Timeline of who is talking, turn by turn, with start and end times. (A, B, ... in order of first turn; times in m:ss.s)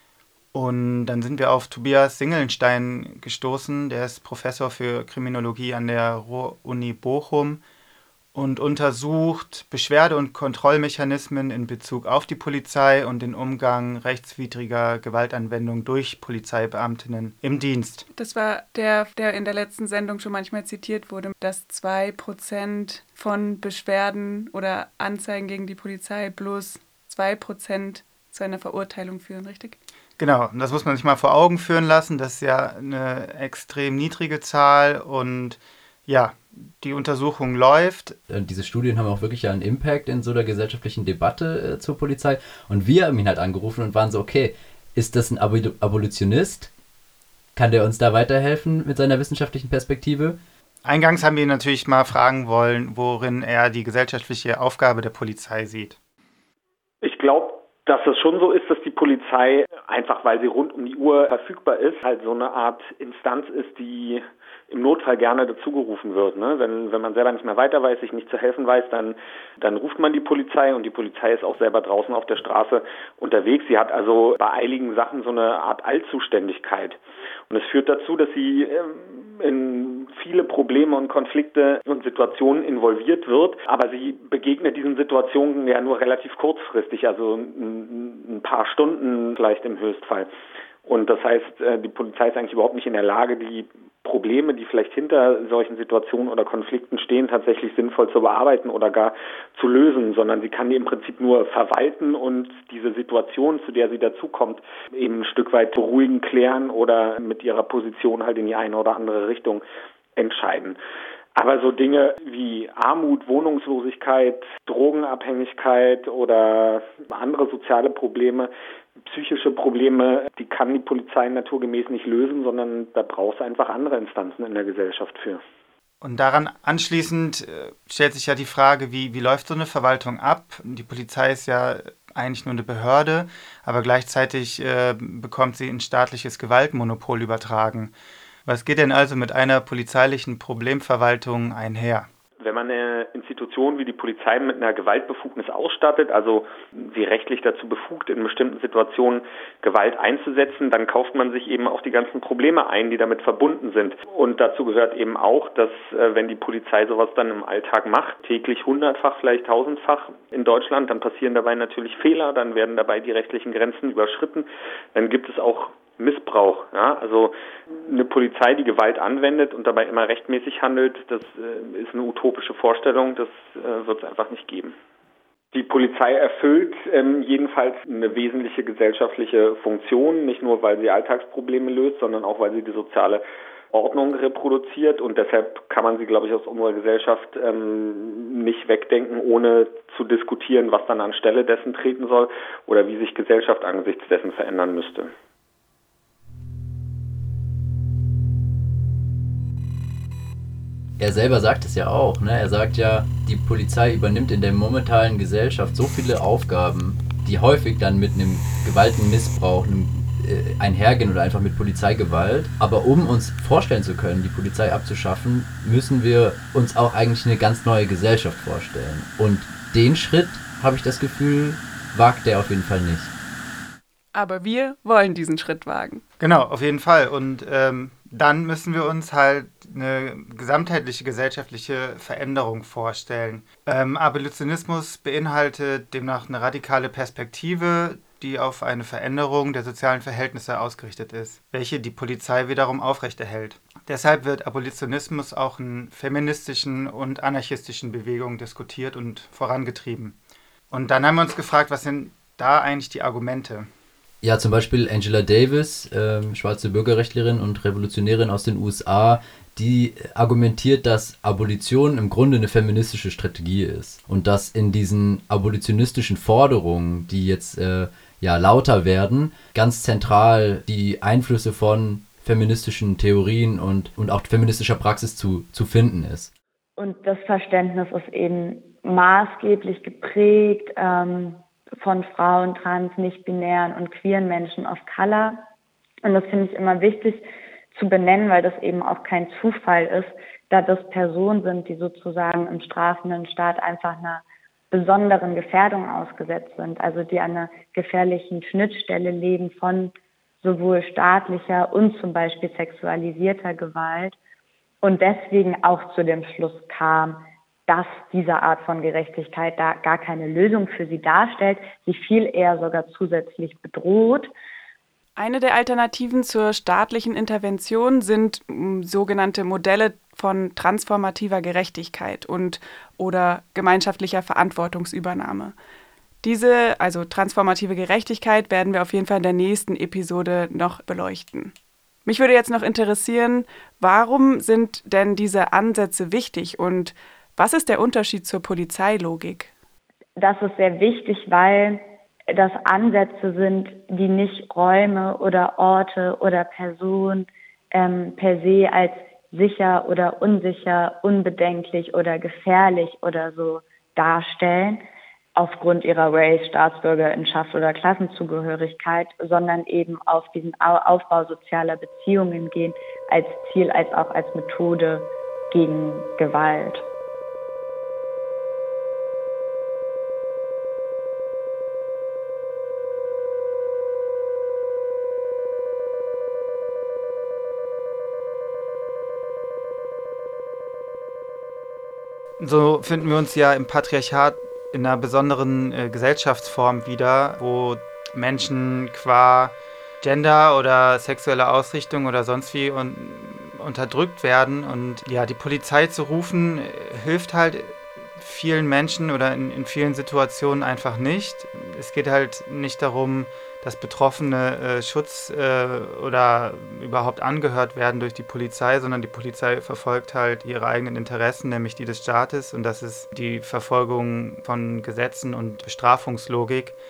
0:00.5-0:07.6 A
0:08.3-0:18.0 A
0:18.2-0:29.8 B
0:30.2-0:38.2 A
0:38.3-0:46.7 C
0:47.6-0:50.4 C
0:50.8-0:56.0 A
0:57.0-1:30.3 D
1:30.8-1:49.6 D
1:50.2-1:50.8 D
1:51.4-1:58.5 D
1:59.0-2:05.4 D
2:06.0-2:17.9 A
2:18.5-2:22.1 A
2:22.4-2:54.8 D
2:55.5-3:15.1 D
3:21.0-3:43.1 C
3:44.1-3:46.0 B
3:46.2-4:10.2 A
4:10.7-4:13.7 A
4:14.2-4:36.3 C
4:36.8-4:45.4 E
4:46.0-5:04.2 E
5:04.8-5:14.3 E
5:15.2-5:25.6 B
5:26.2-5:31.5 B
5:32.0-5:39.5 B
5:40.2-5:54.8 E
5:55.4-6:06.9 E
6:22.4-6:56.8 A